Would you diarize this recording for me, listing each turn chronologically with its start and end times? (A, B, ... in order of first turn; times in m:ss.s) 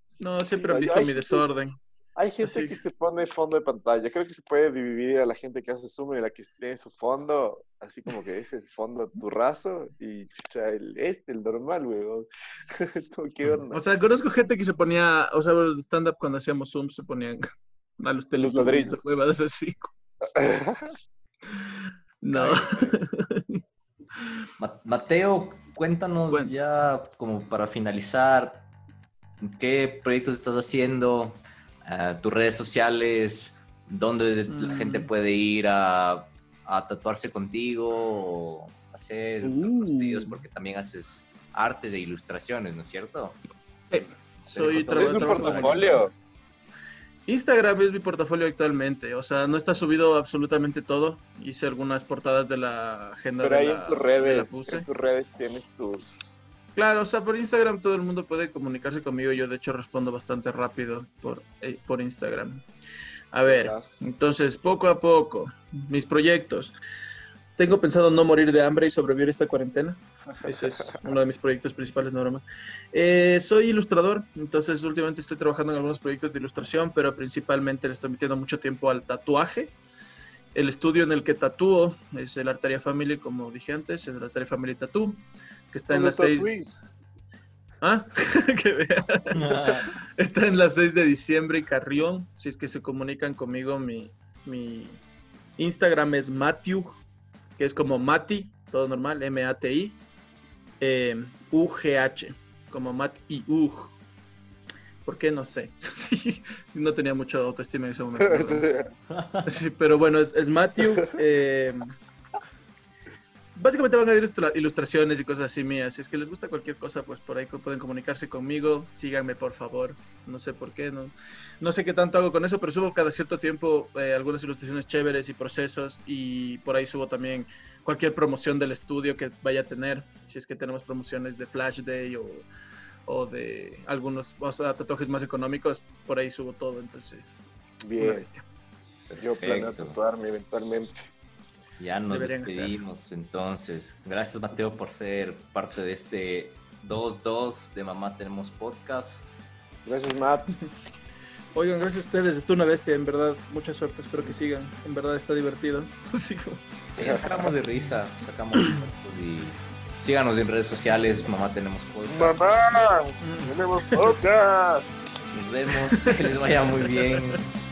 0:00.2-0:01.8 A
0:00.5-0:01.5 B
0:02.2-0:13.8 B
0:02.4-0:02.8 A
0:13.7-0:17.4 A
0:18.0-0:19.9 A
0:18.4-0:19.1 B
0:20.3-0:21.0 B
0:21.5-0:23.6 A
0:22.3-0:23.0 C
0:24.2-0:24.4 A
0:24.6-0:28.6 C
0:26.3-0:26.5 A
0:29.4-0:43.4 C
0:34.5-0:35.1 A
0:39.4-0:40.4 A
0:43.9-0:46.0 A
0:44.6-0:46.0 C
0:44.9-0:46.1 B
0:47.3-0:54.9 A
0:53.4-0:56.4 B
0:56.8-1:02.6 A
1:03.3-1:06.8 A
1:03.5-1:04.0 B
1:07.6-1:19.7 A
1:10.4-1:11.1 B
1:20.5-1:26.8 A
1:25.9-1:26.7 B
1:27.8-1:35.0 A
1:29.3-1:29.9 C
1:35.6-1:37.0 A
1:37.6-1:40.0 A
1:40.8-1:44.0 A
1:45.0-1:48.7 A
1:48.2-1:48.9 B
1:49.1-1:49.6 C
1:49.4-1:51.9 A
1:53.6-2:12.5 A
2:13.1-2:17.4 A
2:17.8-2:18.3 B
2:18.0-2:18.5 A
2:19.1-2:20.0 C
2:19.2-2:21.1 B
2:21.8-2:29.3 C
2:22.1-2:22.8 A
2:29.8-2:30.6 B
2:31.6-2:36.6 A
2:36.9-2:42.4 C
2:37.0-2:37.5 B
2:42.1-2:45.0 B
2:43.2-2:44.2 A
2:45.3-2:47.4 C
2:45.7-2:46.2 A
2:46.8-2:47.4 A